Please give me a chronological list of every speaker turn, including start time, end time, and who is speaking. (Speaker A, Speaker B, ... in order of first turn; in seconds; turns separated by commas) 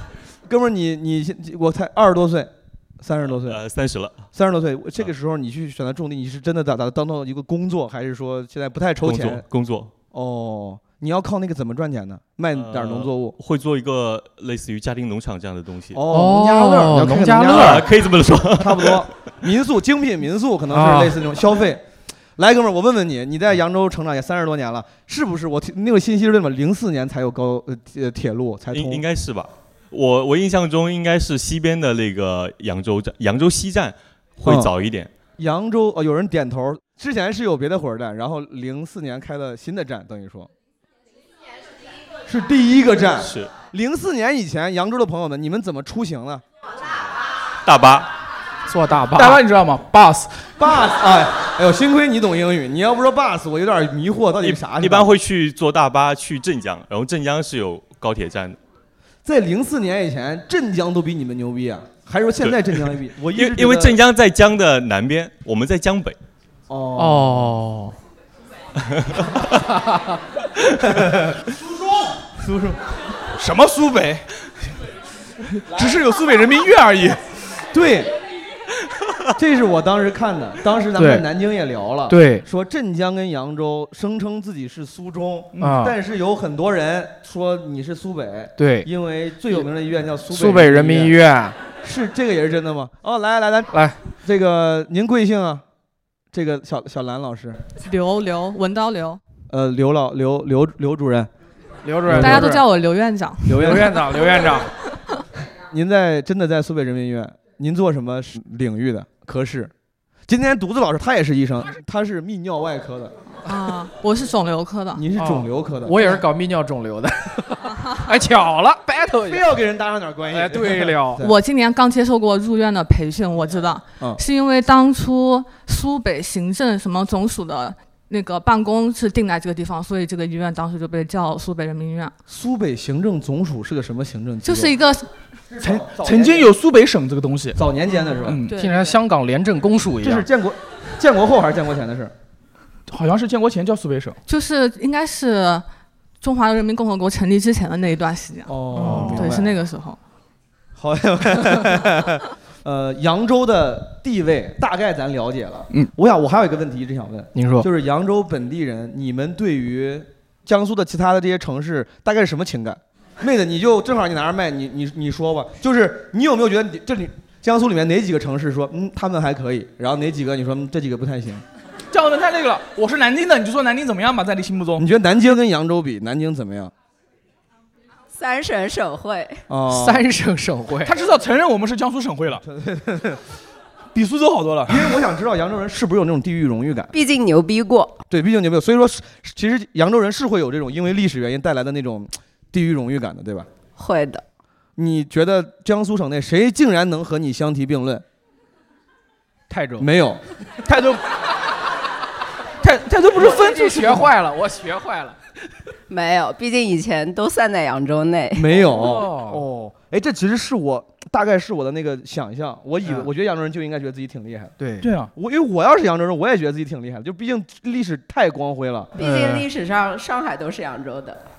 Speaker A: 0.5-3.6, Speaker B: 3.4-4.3, Speaker A: 4.3-9.4, Speaker B: 9.0-9.9, Speaker A: 10.1-13.3, Speaker B: 12.5-16.0, Speaker A: 15.9-17.9, Speaker C: 16.1-17.9, Speaker B: 17.5-19.1, Speaker A: 18.6-21.8, Speaker C: 20.7-21.2, Speaker A: 22.4-29.0, Speaker B: 28.7-35.1, Speaker A: 34.4-34.7, Speaker A: 35.4-40.5, Speaker A: 42.3-46.4, Speaker B: 43.2-43.5, Speaker B: 47.6-48.1, Speaker C: 48.7-49.4, Speaker D: 49.1-50.4, Speaker A: 50.6-55.1, Speaker B: 54.4-58.6, Speaker A: 59.2-64.0, Speaker B: 62.4-66.2, Speaker A: 66.7-67.5, Speaker C: 67.0-68.0, Speaker B: 68.9-69.5, Speaker A: 70.8-71.5, Speaker A: 72.4-72.8, Speaker D: 73.3-74.2, Speaker D: 75.5-77.2, Speaker A: 77.7-78.1, Speaker A: 79.3-95.6, Speaker C: 80.9-81.2, Speaker C: 82.1-82.4, Speaker C: 85.6-85.9, Speaker C: 88.6-88.9, Speaker C: 90.3-91.5, Speaker C: 93.7-94.0, Speaker A: 96.3-97.6, Speaker E: 97.7-99.2, Speaker A: 99.5-101.3, Speaker C: 101.8-102.6, Speaker A: 102.1-102.5, Speaker E: 102.2-103.7, Speaker A: 103.5-104.0, Speaker C: 103.6-104.7, Speaker A: 105.7-109.7, Speaker A: 110.3-113.1, Speaker E: 113.5-115.0, Speaker A: 115.0-116.2, Speaker C: 115.2-119.4, Speaker A: 119.2-121.3, Speaker C: 120.3-121.2, Speaker E: 121.2-132.1, Speaker A: 132.3-134.8, Speaker E: 134.4-135.1, Speaker A: 135.5-136.5, Speaker D: 135.6-137.6, Speaker A: 137.6-138.4, Speaker D: 138.2-138.6, Speaker E: 138.5-139.0, Speaker C: 138.5-140.3, Speaker A: 140.0-142.1, Speaker D: 142.9-144.2, Speaker E: 144.3-145.6, Speaker E: 146.2-150.0, Speaker A: 148.5-149.6, Speaker D: 148.8-149.2, Speaker C: 148.8-149.1, Speaker A: 150.8-171.4, Speaker C: 157.3-157.7, Speaker D: 171.9-174.8, Speaker A: 174.8-176.7, Speaker F: 178.1-179.4, Speaker A: 179.5-180.1, Speaker C: 179.7-180.9, Speaker D: 180.8-182.4, Speaker A: 182.4-183.2, Speaker D: 183.9-184.9, Speaker A: 184.7-186.9, Speaker F: 186.9-188.0, Speaker A: 188.1-193.5, Speaker F: 193.8-194.2, Speaker A: 194.8-198.0, Speaker C: 199.5-199.9, Speaker A: 199.8-200.2, Speaker D: 200.6-201.0, Speaker D: 202.6-204.1, Speaker C: 203.2-205.2, Speaker F: 205.9-208.5, Speaker A: 208.3-214.5, Speaker C: 208.7-209.4, Speaker C: 214.6-214.9, Speaker D: 214.8-215.1, Speaker A: 215.1-218.9, Speaker F: 218.9-221.2